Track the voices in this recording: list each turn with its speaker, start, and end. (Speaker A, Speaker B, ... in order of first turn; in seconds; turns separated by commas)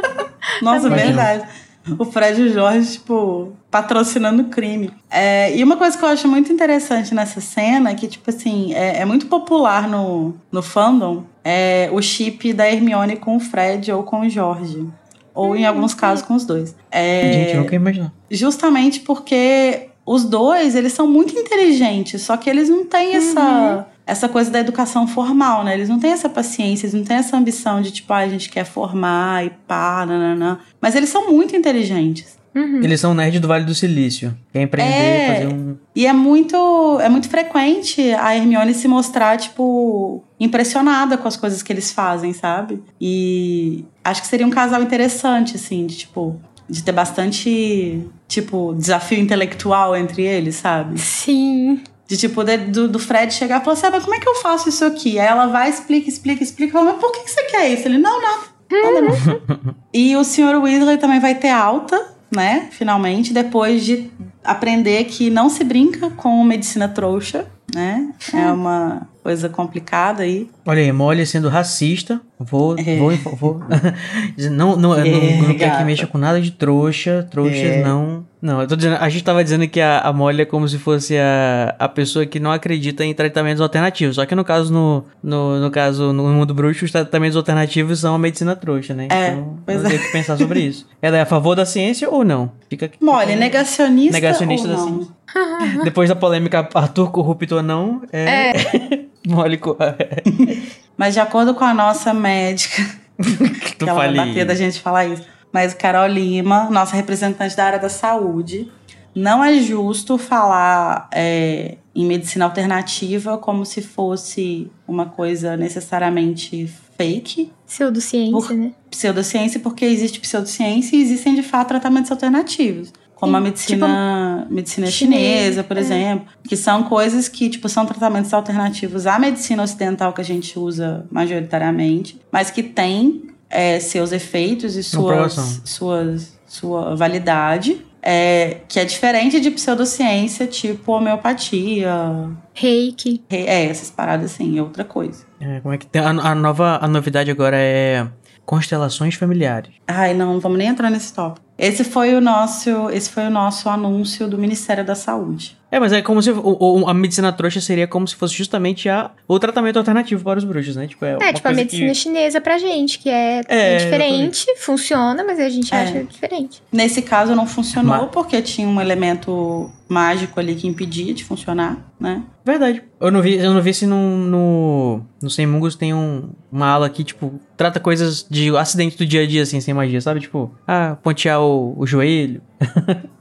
Speaker A: 0.6-1.5, Speaker B: 0.7-1.2, Speaker C: 0.9-1.3, Speaker A: 2.0-17.7, Speaker B: 15.4-16.2, Speaker C: 17.2-18.1, Speaker A: 18.3-32.4, Speaker B: 23.1-23.8, Speaker B: 32.5-32.9, Speaker C: 32.8-35.8, Speaker A: 34.8-51.0, Speaker B: 51.0-51.8, Speaker A: 52.1-59.2, Speaker B: 58.7-59.4, Speaker C: 59.1-59.6, Speaker A: 59.9-70.5, Speaker C: 70.7-95.0, Speaker A: 72.8-73.6, Speaker A: 75.0-76.1, Speaker A: 77.4-78.0, Speaker A: 89.1-90.6, Speaker A: 93.0-95.1, Speaker B: 95.3-95.9, Speaker C: 95.6-100.7, Speaker B: 98.3-98.5, Speaker A: 100.3-102.8, Speaker C: 103.2-104.6, Speaker A: 103.8-117.5, Speaker B: 117.7-118.7, Speaker A: 118.3-142.4, Speaker B: 123.2-124.0, Speaker B: 124.9-126.0, Speaker C: 134.9-135.6, Speaker B: 142.6-143.2, Speaker A: 143.3-145.2, Speaker C: 145.4-149.7, Speaker A: 149.9-155.6, Speaker C: 155.7-161.9, Speaker B: 161.2-166.6, Speaker C: 163.5-164.3, Speaker A: 165.7-166.0, Speaker A: 166.7-172.3, Speaker C: 167.8-168.1, Speaker C: 172.4-183.1